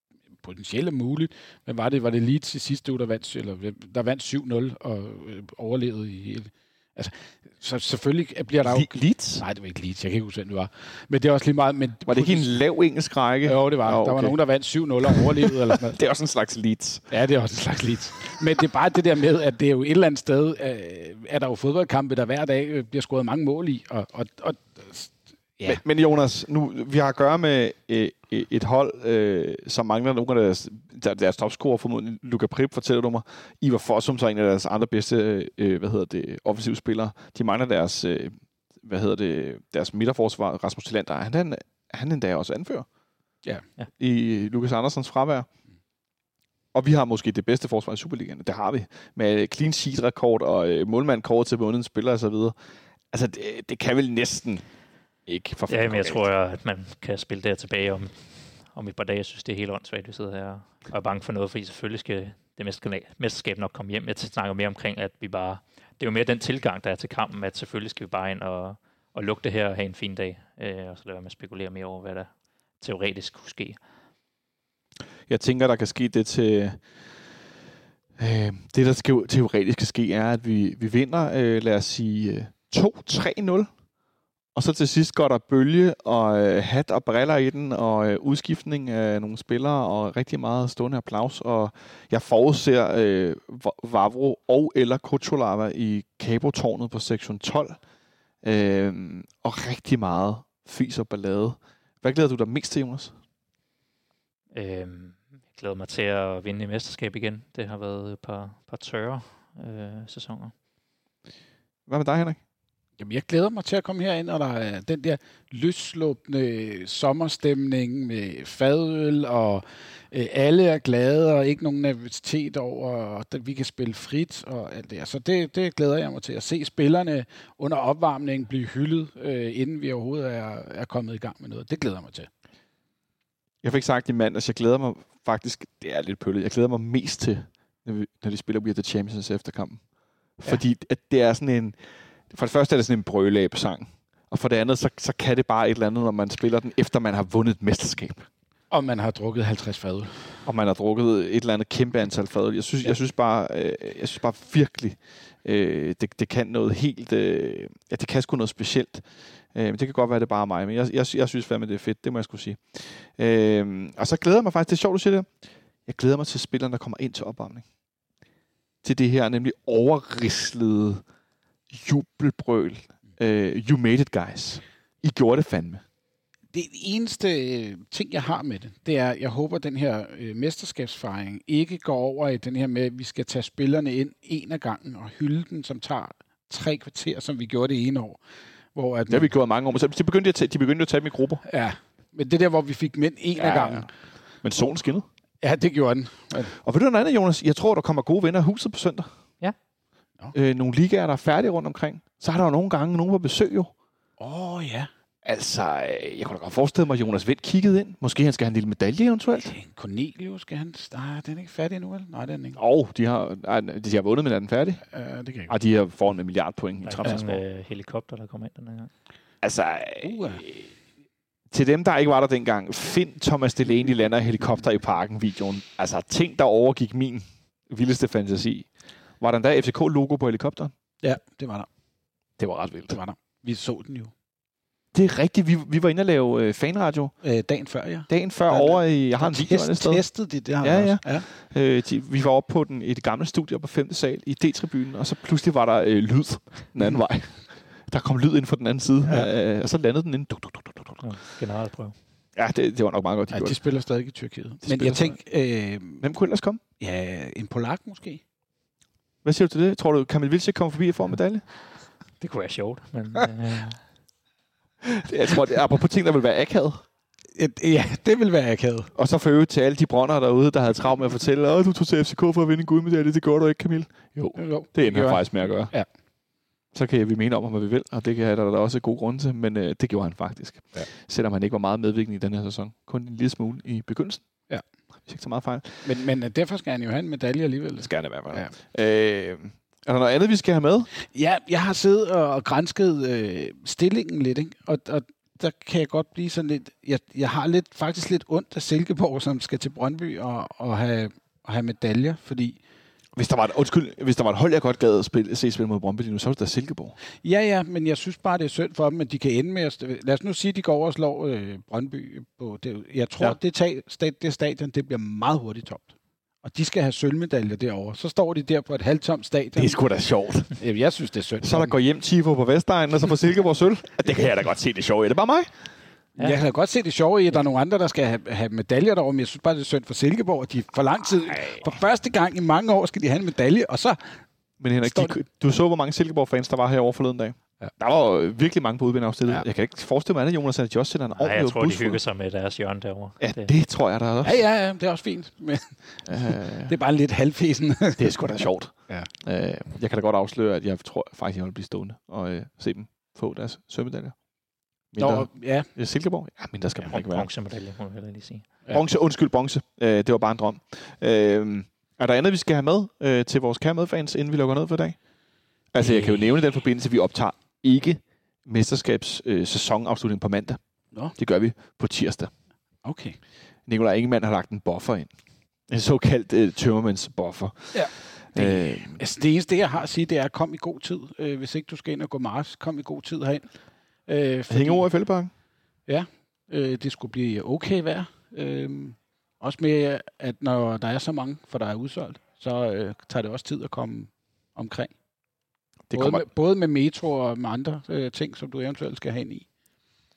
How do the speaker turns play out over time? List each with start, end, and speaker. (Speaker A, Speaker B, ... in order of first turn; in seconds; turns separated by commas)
Speaker A: 0.4-12.5, Speaker B: 8.6-9.4, Speaker B: 12.1-14.4, Speaker A: 13.4-16.0, Speaker B: 15.0-17.1, Speaker A: 17.1-25.8, Speaker B: 25.7-42.9, Speaker B: 44.0-45.5, Speaker B: 46.7-52.6, Speaker B: 53.1-54.6, Speaker B: 55.3-56.2, Speaker C: 55.7-72.3, Speaker C: 72.8-73.8, Speaker B: 75.3-76.8, Speaker B: 78.2-83.7, Speaker B: 84.5-97.8, Speaker B: 98.4-103.2, Speaker C: 104.5-110.5, Speaker B: 111.9-112.4, Speaker A: 113.0-132.3, Speaker B: 133.6-139.8, Speaker B: 140.4-141.8, Speaker B: 142.3-148.3, Speaker A: 148.7-150.4, Speaker B: 150.4-165.3, Speaker B: 165.9-167.7, Speaker B: 168.8-171.0, Speaker B: 171.7-175.8, Speaker A: 176.5-188.2, Speaker A: 188.7-189.3, Speaker B: 189.1-191.4, Speaker A: 191.4-193.9, Speaker B: 193.4-195.1, Speaker A: 195.4-196.6, Speaker B: 196.5-199.1, Speaker B: 200.3-203.7, Speaker A: 204.2-204.9, Speaker B: 205.2-209.5, Speaker A: 209.4-212.6, Speaker B: 212.6-214.8, Speaker A: 214.9-215.5, Speaker B: 215.5-217.4, Speaker C: 216.8-218.9, Speaker B: 219.4-220.7, Speaker A: 220.0-220.4, Speaker B: 221.5-230.7, Speaker A: 231.0-231.7, Speaker B: 232.4-233.0, Speaker A: 232.9-234.1, Speaker B: 234.9-237.2, Speaker A: 237.2-241.3, Speaker B: 238.1-251.0, Speaker C: 251.0-251.9, Speaker B: 252.4-253.6, Speaker A: 253.3-256.1, Speaker B: 254.6-255.2, Speaker B: 256.0-256.6, Speaker A: 256.8-258.2, Speaker B: 259.2-261.5, Speaker C: 262.2-263.9, Speaker B: 264.8-266.8, Speaker A: 267.4-268.9, Speaker B: 268.9-275.8, Speaker A: 274.4-275.9, Speaker B: 276.7-284.2, Speaker B: 285.1-286.0, Speaker A: 285.8-288.5, Speaker B: 287.8-290.9, Speaker A: 291.1-302.6, Speaker B: 303.2-307.0, Speaker A: 307.2-319.8, Speaker B: 319.6-320.6, Speaker A: 320.6-321.8, Speaker B: 321.4-325.5, Speaker A: 326.2-334.3, Speaker B: 334.6-342.0, Speaker A: 334.8-335.2, Speaker C: 341.2-343.5, Speaker B: 343.2-344.4, Speaker A: 344.2-349.1, Speaker B: 346.1-346.7, Speaker B: 348.0-354.2, Speaker B: 354.9-357.3, Speaker A: 355.0-355.7, Speaker C: 356.9-358.5, Speaker B: 358.7-365.0, Speaker B: 365.7-370.6, Speaker A: 365.8-366.2, Speaker B: 371.1-372.3, Speaker A: 372.8-373.2, Speaker B: 373.6-375.1, Speaker B: 375.7-379.0, Speaker A: 377.7-384.9, Speaker B: 384.5-385.3, Speaker A: 385.9-394.9, Speaker B: 395.9-396.3, Speaker A: 395.9-399.5